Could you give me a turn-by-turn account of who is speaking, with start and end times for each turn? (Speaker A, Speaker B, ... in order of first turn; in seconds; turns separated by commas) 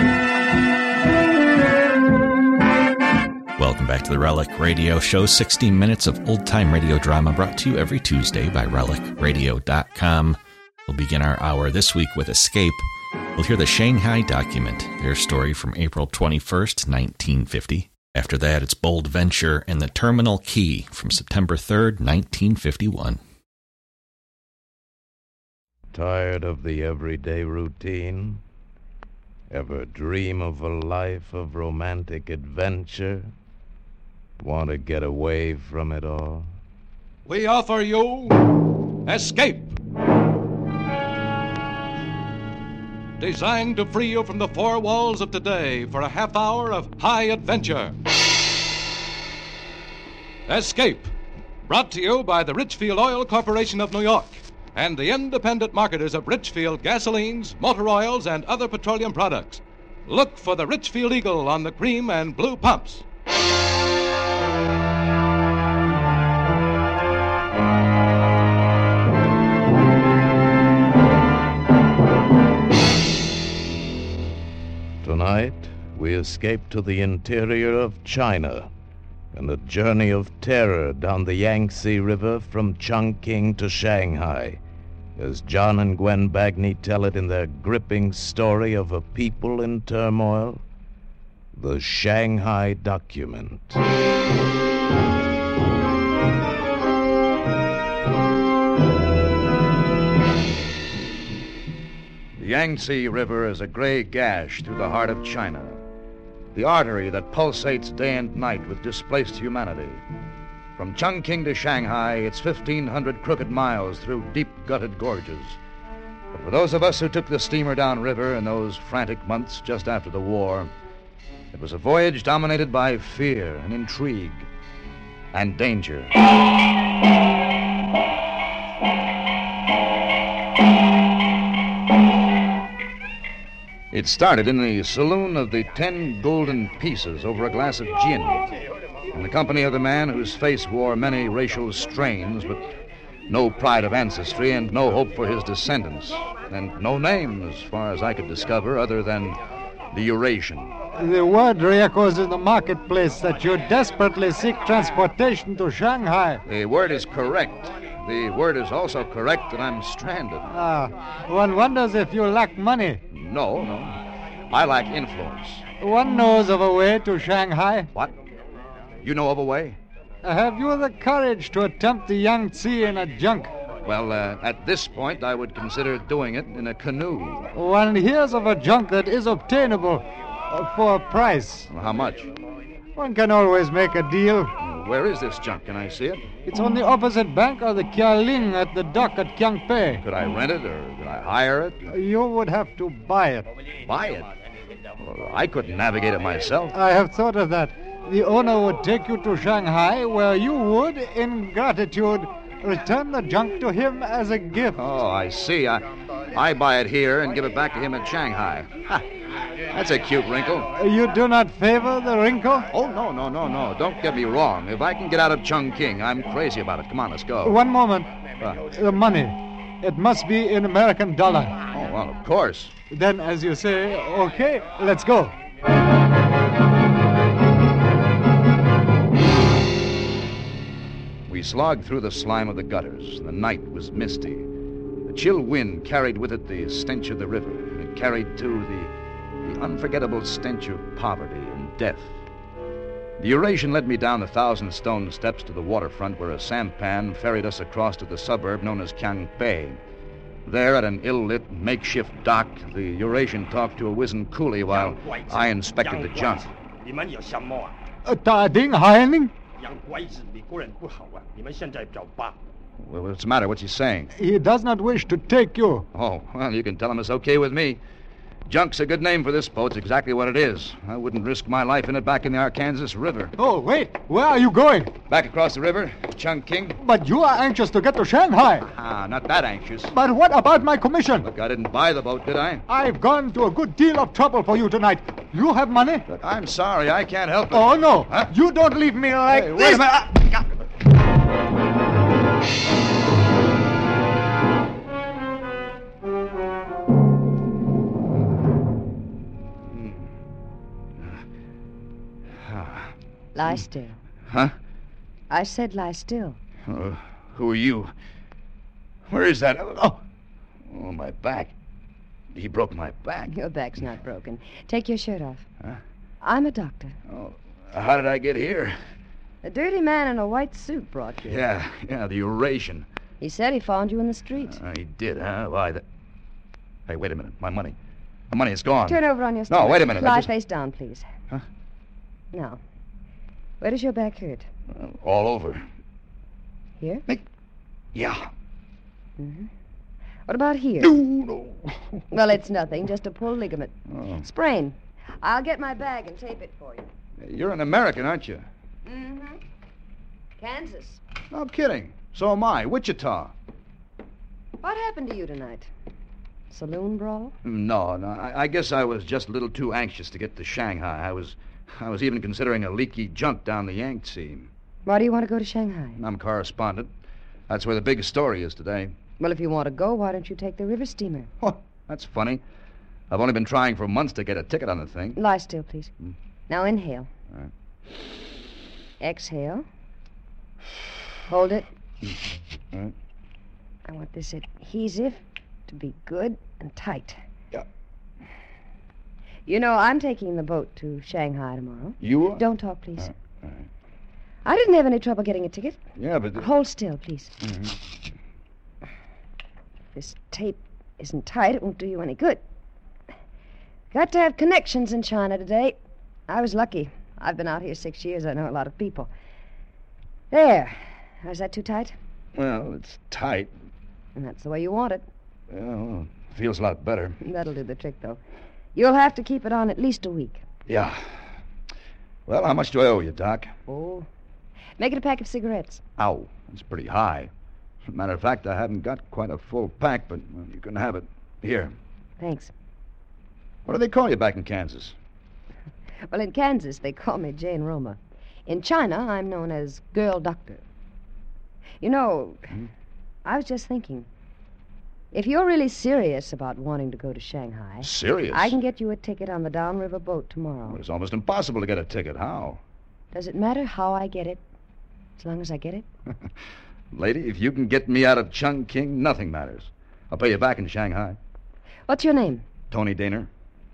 Speaker A: 3.6-12.8, Speaker A: 13.4-23.2, Speaker B: 25.9-28.4, Speaker B: 29.5-33.3, Speaker B: 34.4-36.5, Speaker C: 37.3-38.5, Speaker C: 39.1-39.8, Speaker C: 43.2-48.0, Speaker C: 50.5-51.1, Speaker C: 51.7-63.0, Speaker B: 75.0-78.7, Speaker B: 79.3-84.6, Speaker B: 85.2-90.6, Speaker B: 91.5-93.8, Speaker D: 102.4-105.8, Speaker D: 106.5-110.0, Speaker D: 110.8-115.6, Speaker D: 116.3-120.7, Speaker D: 121.5-124.5, Speaker D: 125.3-126.2, Speaker D: 133.9-138.5, Speaker D: 139.1-142.7, Speaker D: 143.3-149.4, Speaker D: 149.9-150.7, Speaker E: 151.0-156.4, Speaker D: 156.4-160.5, Speaker E: 160.5-163.0, Speaker D: 163.1-164.0, Speaker D: 164.5-165.6, Speaker E: 165.8-167.9, Speaker D: 169.0-169.8, Speaker E: 170.2-173.6, Speaker D: 173.8-177.5, Speaker E: 177.6-181.7, Speaker D: 181.7-182.3, Speaker E: 183.0-184.5, Speaker D: 184.6-186.3, Speaker E: 186.4-190.0, Speaker D: 190.0-191.9, Speaker E: 191.9-193.5, Speaker D: 193.9-194.3, Speaker D: 195.0-196.8, Speaker E: 196.7-204.8, Speaker D: 204.8-209.1, Speaker D: 209.7-210.7, Speaker E: 210.8-212.7, Speaker D: 212.7-217.6, Speaker E: 217.4-218.1, Speaker D: 218.4-218.7, Speaker E: 218.7-221.6, Speaker D: 221.7-222.8, Speaker E: 222.9-225.3, Speaker D: 231.3-234.5, Speaker D: 235.1-238.9, Speaker D: 239.4-242.2, Speaker D: 243.2-249.8, Speaker D: 250.4-256.5, Speaker F: 254.7-257.7, Speaker E: 258.1-259.3, Speaker F: 259.6-262.4, Speaker D: 262.8-264.1, Speaker E: 264.1-265.9, Speaker D: 265.9-267.8, Speaker D: 268.5-273.3, Speaker E: 273.4-274.9, Speaker D: 275.1-276.8, Speaker E: 276.8-278.7, Speaker D: 278.7-279.9, Speaker E: 279.9-281.3, Speaker D: 281.2-282.7, Speaker E: 282.7-286.1, Speaker D: 286.1-288.3, Speaker E: 287.5-290.0, Speaker D: 289.3-290.5, Speaker D: 299.7-300.0, Speaker D: 302.4-302.9, Speaker G: 303.4-304.0, Speaker D: 304.3-304.6, Speaker G: 305.3-306.4, Speaker D: 306.7-307.9, Speaker D: 309.1-310.0, Speaker D: 310.7-311.5, Speaker D: 312.3-313.3, Speaker G: 313.3-315.4, Speaker G: 316.2-317.0, Speaker D: 317.1-318.8, Speaker G: 319.4-321.4, Speaker D: 321.3-322.9, Speaker G: 323.2-324.6, Speaker D: 324.4-325.8, Speaker D: 326.9-327.8, Speaker D: 328.3-330.3, Speaker G: 328.9-331.1, Speaker G: 332.3-332.6, Speaker G: 333.6-334.5, Speaker D: 334.7-335.6, Speaker G: 336.8-337.1, Speaker D: 337.9-338.3, Speaker G: 339.2-339.5, Speaker G: 340.3-341.0, Speaker D: 340.8-341.8, Speaker G: 342.1-346.9, Speaker D: 343.9-344.3, Speaker D: 347.2-348.5, Speaker G: 348.9-349.4, Speaker G: 350.4-351.0, Speaker D: 351.3-353.3, Speaker G: 354.6-355.7, Speaker G: 356.5-357.4, Speaker D: 357.4-364.5, Speaker G: 364.9-366.0, Speaker D: 366.0-366.9, Speaker D: 367.5-368.9, Speaker G: 369.2-371.3, Speaker D: 371.4-372.4, Speaker D: 373.1-375.2, Speaker G: 375.2-375.9, Speaker G: 376.5-377.1, Speaker G: 379.0-379.7, Speaker G: 381.3-381.7, Speaker G: 383.9-387.2, Speaker G: 389.5-393.1, Speaker D: 392.0-392.4, Speaker D: 393.0-393.7, Speaker G: 394.4-395.8, Speaker D: 396.0-396.5, Speaker G: 396.4-397.3, Speaker D: 397.4-397.8, Speaker G: 399.9-402.4, Speaker G: 403.9-405.8, Speaker G: 406.3-409.1, Speaker G: 410.3-411.9, Speaker D: 412.4-413.5, Speaker G: 414.2-415.1, Speaker D: 415.5-417.2, Speaker G: 417.2-418.2, Speaker G: 418.8-420.4, Speaker D: 420.7-421.1, Speaker D: 422.3-423.5, Speaker G: 423.7-424.1, Speaker G: 424.8-425.8, Speaker D: 426.0-427.3, Speaker D: 427.9-431.7, Speaker G: 432.2-432.5, Speaker D: 433.7-435.0, Speaker G: 436.1-440.6, Speaker G: 441.8-442.5, Speaker G: 443.2-444.1, Speaker G: 445.1-450.8, Speaker D: 447.8-448.6, Speaker D: 450.7-452.6, Speaker G: 453.1-454.4, Speaker G: 455.2-455.9, Speaker D: 456.9-461.2, Speaker G: 461.9-462.4, Speaker D: 462.7-463.3